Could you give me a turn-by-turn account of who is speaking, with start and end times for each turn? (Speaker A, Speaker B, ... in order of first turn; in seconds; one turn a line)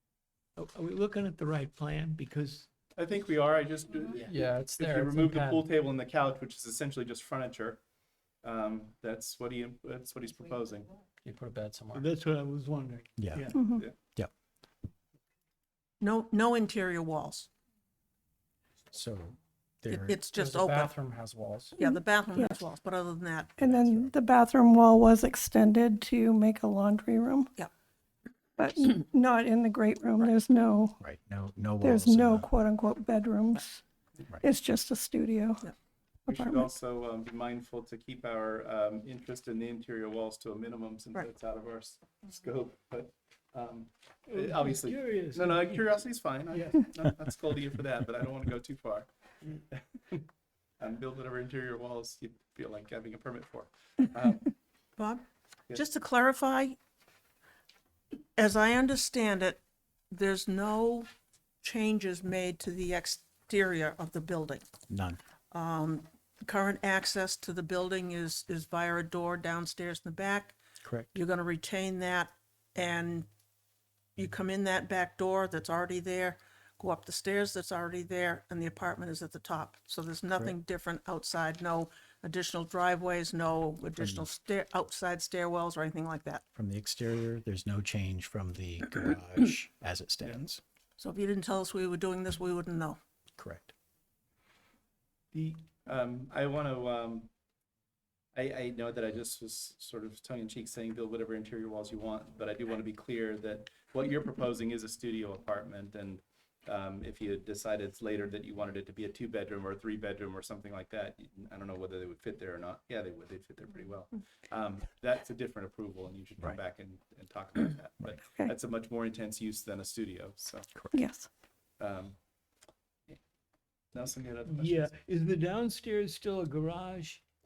Speaker A: 0.6-2.7
Speaker B: 3.0-7.8
Speaker C: 4.2-5.7
Speaker B: 8.4-10.9
Speaker C: 11.2-12.1
Speaker A: 11.9-13.6
Speaker D: 13.2-13.5
Speaker E: 13.5-13.8
Speaker F: 16.0-17.5
Speaker D: 18.9-20.2
Speaker F: 19.9-20.9
Speaker C: 20.3-21.8
Speaker E: 21.8-22.6
Speaker F: 21.8-23.6
Speaker D: 23.6-24.1
Speaker E: 23.6-27.5
Speaker E: 28.6-31.0
Speaker D: 31.0-32.5
Speaker E: 31.8-33.8
Speaker E: 34.4-35.6
Speaker B: 36.3-49.1
Speaker E: 36.3-36.7
Speaker A: 44.3-45.9
Speaker A: 46.5-46.9
Speaker B: 49.7-50.2
Speaker B: 50.8-54.5
Speaker F: 55.0-56.8
Speaker F: 58.4-59.6
Speaker F: 60.1-61.1
Speaker F: 61.6-64.7
Speaker D: 64.9-65.2
Speaker F: 65.5-70.6
Speaker D: 70.8-71.1
Speaker F: 71.1-73.3
Speaker F: 74.2-86.4
Speaker D: 84.0-84.3
Speaker D: 86.5-90.6
Speaker F: 91.0-93.0
Speaker D: 93.4-93.7
Speaker B: 95.3-97.3
Speaker B: 98.3-120.7
Speaker E: 120.9-121.3
Speaker B: 121.8-122.2
Speaker B: 123.9-124.9
Speaker A: 124.5-127.2